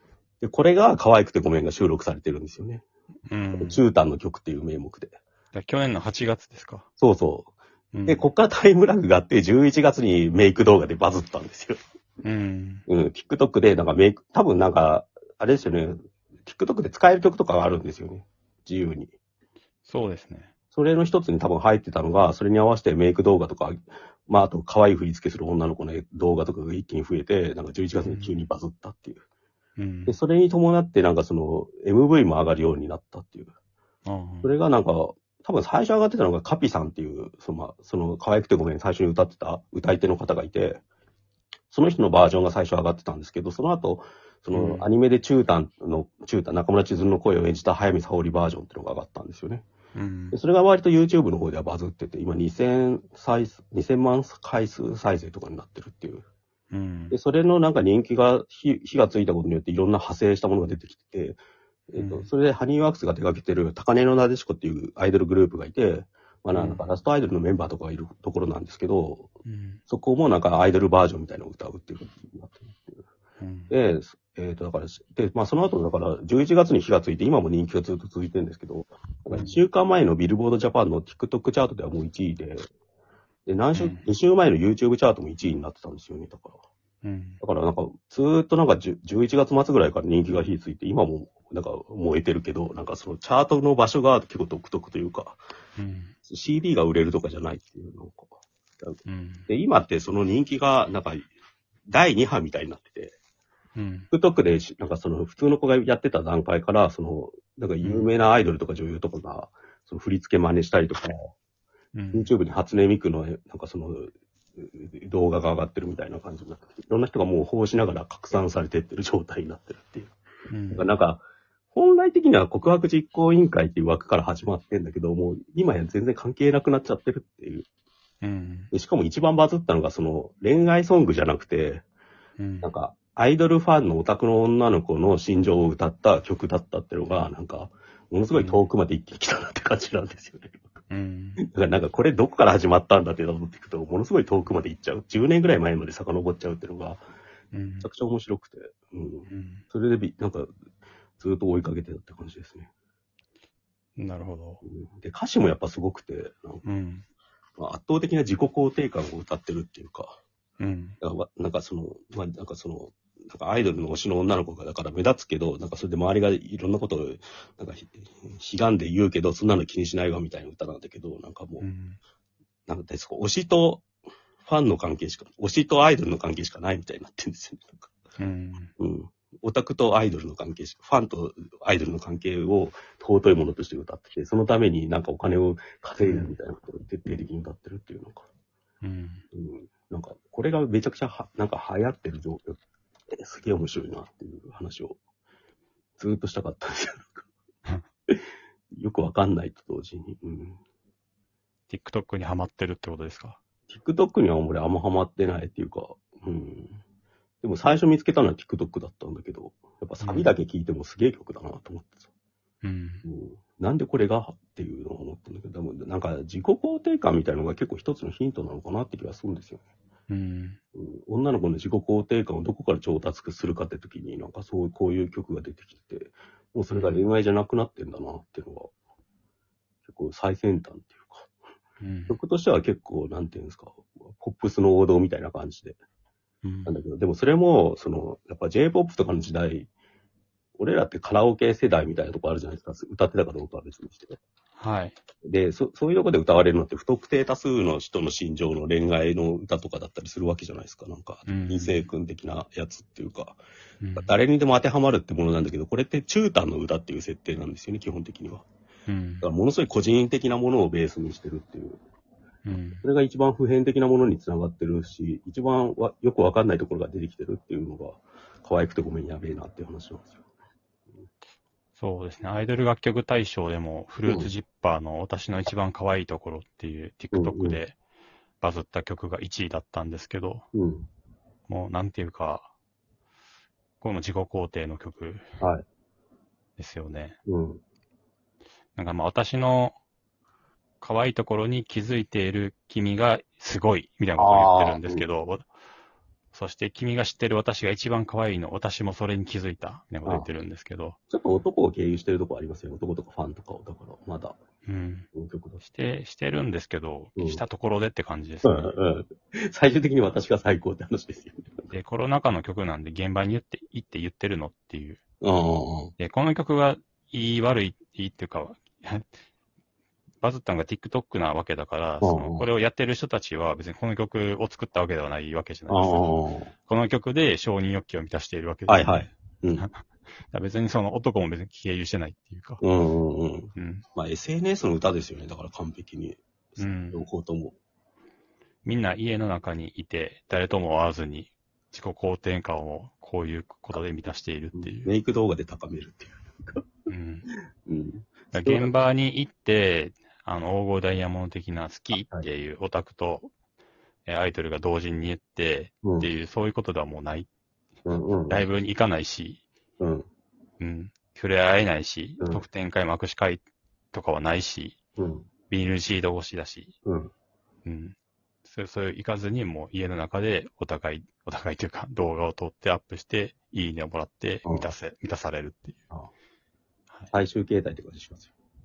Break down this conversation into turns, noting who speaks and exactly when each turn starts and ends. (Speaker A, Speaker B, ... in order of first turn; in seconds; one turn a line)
Speaker A: 0.4-2.8
Speaker B: 3.3-3.8
Speaker A: 3.5-5.2
Speaker B: 5.5-6.9
Speaker A: 7.0-7.5
Speaker B: 7.9-8.2
Speaker A: 8.1-11.8
Speaker B: 12.2-12.8
Speaker A: 12.9-19.1
Speaker B: 19.9-20.5
Speaker A: 20.7-29.2
Speaker B: 28.0-28.4
Speaker B: 29.8-30.1
Speaker A: 30.1-33.5
Speaker B: 34.0-34.5
Speaker A: 34.4-40.8
Speaker A: 41.7-49.6
Speaker B: 44.5-44.9
Speaker B: 49.9-50.4
Speaker A: 50.3-56.2
Speaker B: 56.7-57.1
Speaker A: 57.1-61.4
Speaker A: 61.9-69.3
Speaker B: 62.0-62.3
Speaker B: 66.5-66.8
Speaker B: 69.4-69.8
Speaker A: 69.9-72.8
Speaker B: 73.4-73.7
Speaker A: 73.7-82.7
Speaker B: 79.3-79.6
Speaker A: 83.5-86.6
Speaker B: 83.7-84.0
Speaker B: 87.0-87.4
Speaker A: 87.4-95.4
Speaker B: 95.8-96.1
Speaker A: 96.2-99.0
Speaker B: 99.0-99.5
Speaker A: 99.5-101.3
Speaker A: 101.9-103.1
Speaker B: 103.8-104.1
Speaker A: 104.1-111.3
Speaker B: 107.8-108.1
Speaker B: 111.9-112.3
Speaker A: 112.1-120.1
Speaker B: 120.5-120.9
Speaker A: 120.7-121.2
Speaker A: 121.7-127.7
Speaker B: 128.2-128.7
Speaker A: 128.7-131.8
Speaker B: 132.4-132.7
Speaker A: 132.6-140.6
Speaker B: 138.3-138.6
Speaker B: 140.9-141.4
Speaker A: 141.4-147.0
Speaker B: 147.5-147.9
Speaker A: 147.8-150.5
Speaker B: 149.3-149.6
Speaker A: 151.2-152.7
Speaker B: 154.0-154.6
Speaker A: 154.6-156.6
Speaker B: 156.6-157.0
Speaker A: 157.6-160.2
Speaker B: 160.6-161.0
Speaker A: 161.0-171.7
Speaker B: 171.6-172.0
Speaker A: 172.7-173.8
Speaker A: 174.4-177.9
Speaker B: 178.2-178.7
Speaker A: 178.8-188.2
Speaker B: 186.0-186.3
Speaker B: 188.8-189.2
Speaker A: 189.3-192.6
Speaker A: 193.1-195.0
Speaker A: 196.0-197.3
Speaker A: 198.7-200.6
Speaker B: 201.7-203.4
Speaker A: 203.7-206.8
Speaker A: 207.4-212.0
Speaker B: 210.0-210.3
Speaker B: 212.6-213.0
Speaker A: 213.0-219.6
Speaker B: 220.1-220.6
Speaker A: 220.7-228.7
Speaker B: 226.7-227.0
Speaker A: 229.8-231.3
Speaker B: 231.8-232.1
Speaker A: 232.1-235.8
Speaker B: 236.4-236.7
Speaker A: 236.7-239.7
Speaker A: 240.6-244.2
Speaker B: 244.6-245.0
Speaker A: 245.2-253.4
Speaker B: 251.3-251.8
Speaker B: 253.8-254.1
Speaker A: 253.9-258.4
Speaker B: 258.9-259.3
Speaker A: 259.2-261.8
Speaker B: 262.4-262.8
Speaker A: 262.8-270.2
Speaker B: 271.8-277.8
Speaker A: 277.1-277.6
Speaker B: 278.4-280.4
Speaker A: 280.5-280.9
Speaker B: 281.5-282.5
Speaker B: 283.8-285.3
Speaker B: 286.6-287.2
Speaker A: 287.2-287.6
Speaker B: 288.8-289.8
Speaker B: 290.8-295.5
Speaker A: 294.2-295.0
Speaker B: 296.3-301.0
Speaker A: 301.1-304.4
Speaker B: 304.7-305.1
Speaker A: 305.1-305.6
Speaker B: 305.6-308.7
Speaker A: 308.4-311.5
Speaker B: 311.7-315.0
Speaker A: 315.2-315.9
Speaker B: 316.0-319.1
Speaker B: 320.2-326.1
Speaker A: 322.0-322.4
Speaker A: 325.7-326.5
Speaker B: 326.7-328.9
Speaker A: 328.7-329.6
Speaker B: 329.5-332.6
Speaker A: 332.6-337.6
Speaker B: 333.5-333.8
Speaker B: 336.6-337.0
Speaker B: 338.6-344.9
Speaker A: 344.5-346.7
Speaker B: 346.9-347.3
Speaker A: 347.6-348.7
Speaker B: 348.3-353.3
Speaker B: 354.1-357.3
Speaker A: 355.8-356.1
Speaker A: 357.8-358.4
Speaker B: 358.3-359.4
Speaker A: 359.8-360.1
Speaker B: 360.6-364.8
Speaker A: 365.0-365.3
Speaker B: 365.5-366.7
Speaker A: 366.8-367.1
Speaker B: 367.6-367.9
Speaker B: 368.5-375.8
Speaker A: 377.1-378.3